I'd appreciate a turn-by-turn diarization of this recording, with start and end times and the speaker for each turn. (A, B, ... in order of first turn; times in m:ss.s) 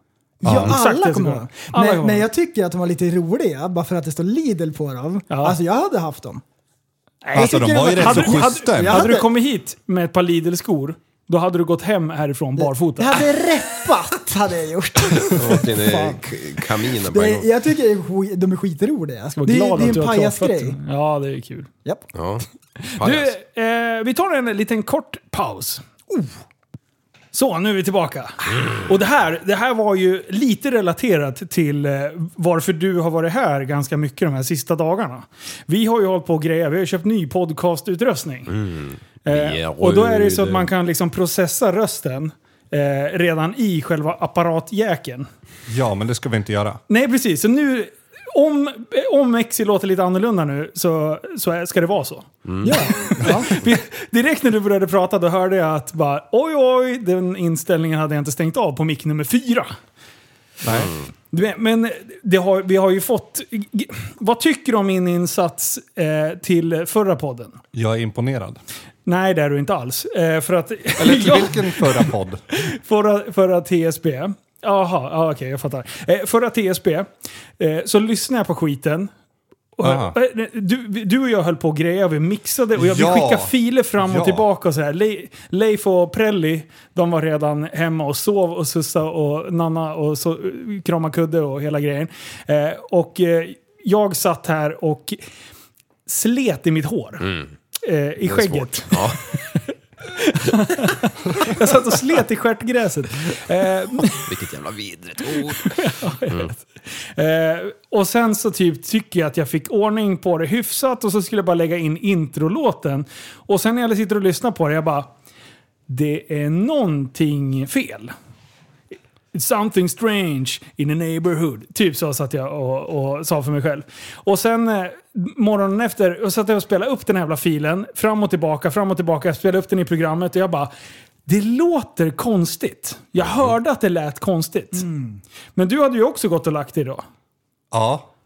0:00.4-0:06.4 A
0:00.4-0:00.8 B
0:00.5-0:02.3 C
0:05.3-0:05.6 C
0:07.2-0:13.2 C
0:07.3-0:09.1 B
0:07.4-0:09.3 A
0:12.6-0:16.2 A
0:15.3-0:17.5 D
0:17.1-0:20.8 A
0:19.4-0:21.7 C
0:22.1-0:22.4 D
0:22.8-0:25.9 C
0:23.0-0:23.4 D
0:27.3-0:38.5 C
0:38.5-0:40.7 D
0:39.3-0:45.3 C
0:45.7-0:46.8 B
0:46.9-0:59.7 C
0:52.4-0:53.1 D
0:52.6-0:53.5 A
1:00.6-1:00.9 B
1:00.7-1:01.1 D
1:01.3-1:07.6 C
1:07.7-1:08.6 B
1:09.1-1:17.1 C
1:11.0-1:12.4 B
1:17.6-1:19.1 C
1:19.8-1:35.2 C
1:19.8-1:20.1 B
1:22.8-1:24.4 B
1:36.1-1:37.2 C
1:37.2-1:37.5 D
1:37.8-1:44.3 C
1:38.2-1:39.2 D
1:44.1-1:46.5 D
1:45.7-1:55.1 C
1:55.9-1:58.1 C
1:59.3-2:10.7 C
2:11.3-2:14.9 C
2:14.8-2:15.2 A
2:15.6-2:17.0 C
2:17.7-2:18.1 B